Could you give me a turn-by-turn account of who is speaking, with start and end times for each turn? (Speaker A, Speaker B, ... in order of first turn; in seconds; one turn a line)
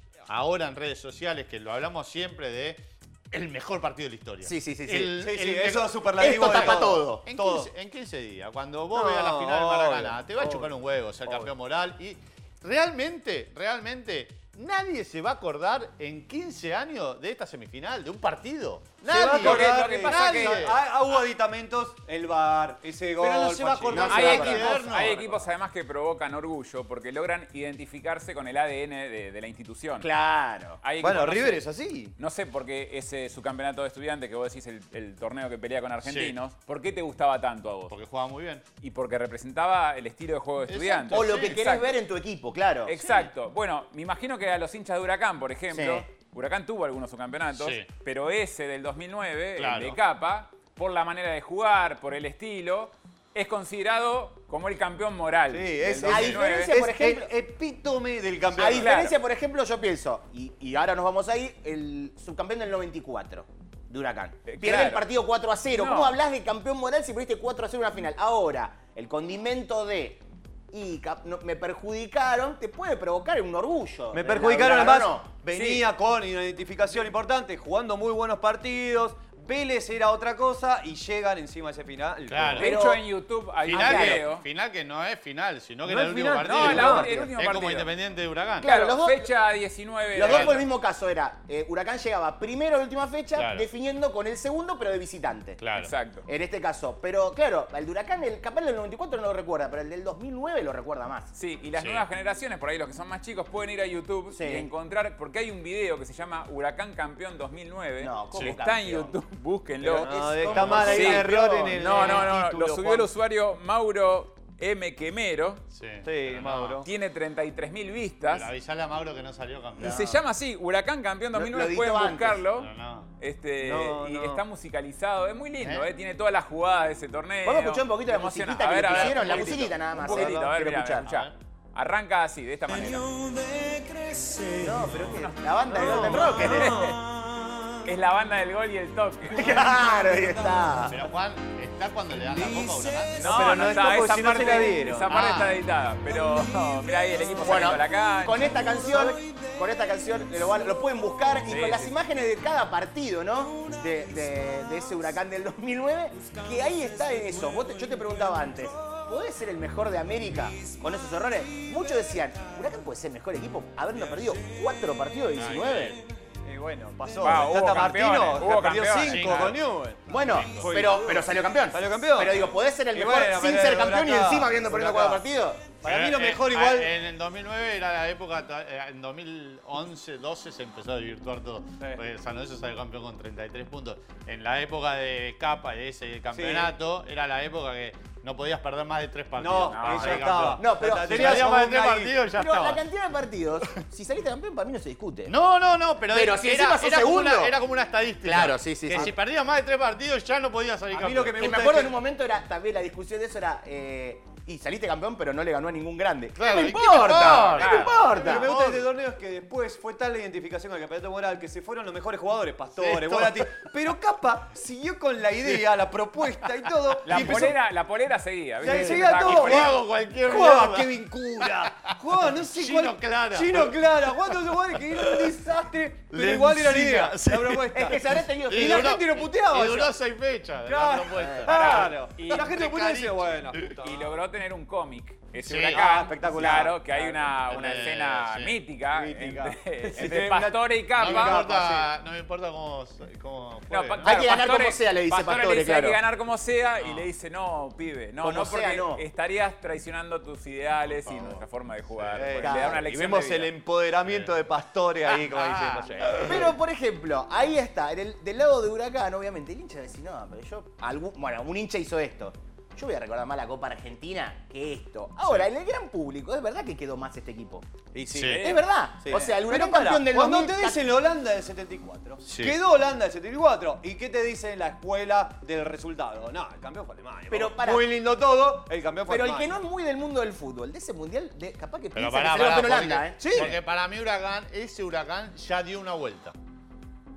Speaker A: 0.3-20.8
Speaker B: 4.4-5.2
Speaker C: 5.2-7.7
Speaker B: 6.2-7.2
Speaker C: 8.9-10.7
Speaker C: 19.0-25.2
Speaker D: 19.2-20.6
Speaker A: 23.2-25.5
Speaker B: 23.9-24.8
Speaker D: 24.1-30.1
Speaker B: 30.0-30.8
Speaker D: 30.8-31.6
Speaker C: 31.0-32.1
Speaker D: 32.1-38.0
Speaker A: 36.0-36.4
Speaker A: 37.9-38.6
Speaker D: 38.8-42.0
Speaker A: 40.7-41.6
Speaker B: 41.1-43.1
Speaker D: 42.9-56.7
Speaker A: 43.0-43.3
Speaker B: 45.7-46.0
Speaker A: 47.5-47.9
Speaker A: 49.6-50.0
Speaker C: 55.5-58.9
Speaker B: 56.0-57.3
Speaker B: 58.5-75.3
Speaker D: 58.7-59.1
Speaker D: 64.5-65.0
Speaker D: 65.7-66.1
Speaker C: 74.1-82.7
Speaker D: 75.5-75.8
Speaker A: 82.2-82.7
Speaker D: 82.6-84.4
Speaker B: 82.6-83.0
Speaker A: 83.6-88.7
Speaker B: 83.7-84.2
Speaker C: 85.8-87.2
Speaker D: 86.4-87.9
Speaker B: 88.6-89.3
Speaker D: 88.6-90.6
Speaker B: 90.1-95.6
Speaker A: 90.2-90.6
Speaker A: 93.3-93.7
Speaker A: 95.6-95.9
Speaker D: 95.8-96.3
Speaker B: 96.2-101.3
Speaker D: 101.3-115.6
Speaker A: 101.8-102.0
Speaker B: 104.3-104.7
Speaker B: 108.0-109.2
Speaker C: 109.8-113.1
Speaker B: 109.9-112.2
Speaker A: 110.5-110.9
Speaker A: 115.7-116.8
Speaker C: 116.0-116.9
Speaker D: 116.8-118.5
Speaker A: 118.2-120.2
Speaker B: 119.8-120.2
Speaker D: 119.8-133.2
Speaker B: 121.3-122.4
Speaker A: 122.5-123.1
Speaker C: 123.6-124.4
Speaker A: 125.6-125.9
Speaker B: 127.4-131.1
Speaker A: 128.9-129.7
Speaker A: 131.0-131.3
Speaker C: 133.2-134.9
Speaker B: 134.5-136.9
Speaker C: 135.7-137.0
Speaker D: 135.7-137.0
Speaker D: 137.8-139.7
Speaker B: 139.3-141.0
Speaker A: 140.8-143.3
Speaker C: 142.5-145.1
Speaker D: 143.1-148.7
Speaker A: 145.1-145.4
Speaker B: 147.4-166.0
Speaker D: 151.4-151.9
Speaker A: 165.3-166.0
Speaker C: 166.4-175.2
Speaker D: 167.2-169.6
Speaker A: 169.0-171.0
Speaker B: 170.1-175.7
Speaker C: 175.8-176.9
Speaker A: 175.8-192.8
Speaker C: 186.3-186.7
Speaker C: 189.4-192.2
Speaker D: 189.7-190.3
Speaker B: 190.5-191.5
Speaker B: 192.3-195.3
Speaker A: 195.3-201.7
Speaker B: 196.1-197.5
Speaker B: 198.2-199.1
Speaker C: 200.9-202.0
Speaker B: 201.4-208.5
Speaker A: 206.3-208.9
Speaker D: 207.4-208.1
Speaker C: 208.0-217.6
Speaker A: 212.7-213.6
Speaker A: 216.7-217.5
Speaker D: 217.0-219.7
Speaker C: 218.6-229.9
Speaker A: 218.6-225.5
Speaker A: 226.1-233.8
Speaker B: 227.7-229.2
Speaker C: 230.6-234.1
Speaker B: 231.2-231.4
Speaker D: 231.4-232.6
Speaker D: 233.8-241.4
Speaker A: 235.4-236.7
Speaker C: 235.5-237.9
Speaker A: 237.5-238.6
Speaker C: 238.9-241.9
Speaker A: 241.0-244.3
Speaker D: 243.7-253.5
Speaker B: 244.0-246.0
Speaker A: 246.8-247.1
Speaker B: 248.2-249.0
Speaker A: 250.9-251.4
Speaker A: 251.9-252.3
Speaker C: 252.1-256.5
Speaker B: 252.4-252.8
Speaker A: 254.0-254.3
Speaker A: 255.0-256.4
Speaker B: 256.2-267.7
Speaker C: 267.9-279.5
Speaker A: 268.1-268.4
Speaker D: 268.1-268.6
Speaker B: 268.4-270.8
Speaker A: 272.2-272.6
Speaker B: 277.3-277.9
Speaker B: 279.1-283.2
Speaker A: 281.9-286.3
Speaker C: 283.2-283.6